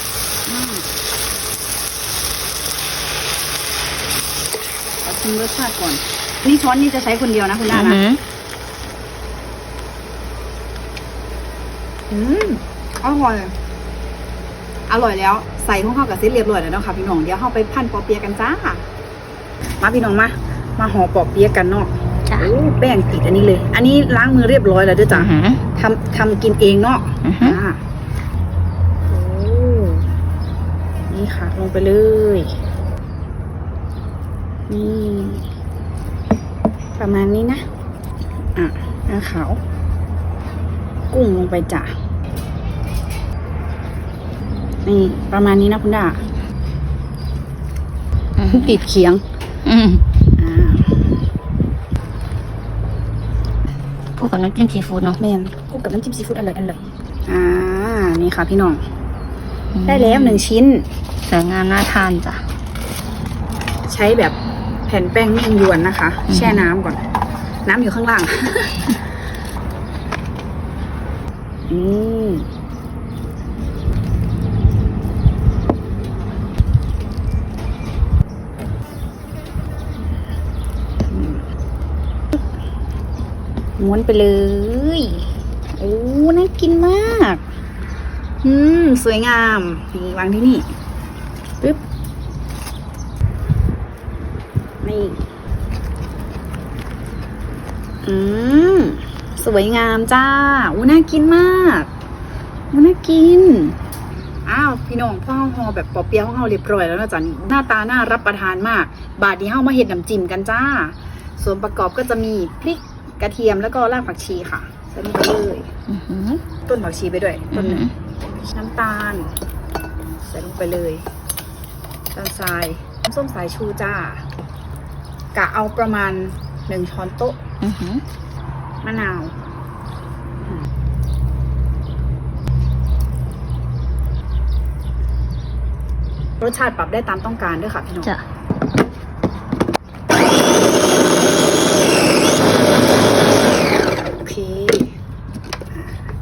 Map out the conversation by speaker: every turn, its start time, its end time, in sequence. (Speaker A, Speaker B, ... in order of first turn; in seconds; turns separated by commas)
Speaker A: 0.5-0.9, Speaker A: 5.0-8.0, Speaker B: 7.7-8.2, Speaker A: 12.1-13.5, Speaker A: 14.9-18.9, Speaker A: 19.8-27.8, Speaker B: 25.1-25.6, Speaker B: 27.2-27.6, Speaker A: 29.1-30.1, Speaker A: 31.1-32.5, Speaker A: 34.7-35.4, Speaker A: 37.0-37.7, Speaker A: 38.6-39.6, Speaker A: 41.1-41.9, Speaker A: 44.9-46.2, Speaker B: 48.4-48.8, Speaker A: 48.5-49.2, Speaker B: 49.6-50.0, Speaker A: 50.4-51.1, Speaker B: 54.2-55.2, Speaker A: 55.2-58.8, Speaker B: 59.7-60.4, Speaker A: 59.9-60.9, Speaker B: 61.3-62.5, Speaker A: 63.9-64.4, Speaker A: 64.9-67.0, Speaker B: 66.3-66.7, Speaker A: 67.7-69.0, Speaker A: 71.7-72.5, Speaker A: 81.1-81.4, Speaker A: 83.8-87.4, Speaker A: 88.4-90.7, Speaker A: 94.8-95.2, Speaker A: 98.0-101.9, Speaker A: 102.7-103.8, Speaker A: 104.5-115.7, Speaker B: 115.9-116.4, Speaker A: 116.7-117.9, Speaker B: 117.5-117.9, Speaker A: 118.4-119.3, Speaker A: 120.2-121.0, Speaker A: 122.1-124.2, Speaker A: 125.3-127.4, Speaker B: 127.6-128.0, Speaker A: 128.8-129.3, Speaker A: 136.4-138.1, Speaker A: 144.2-144.9, Speaker A: 145.7-146.1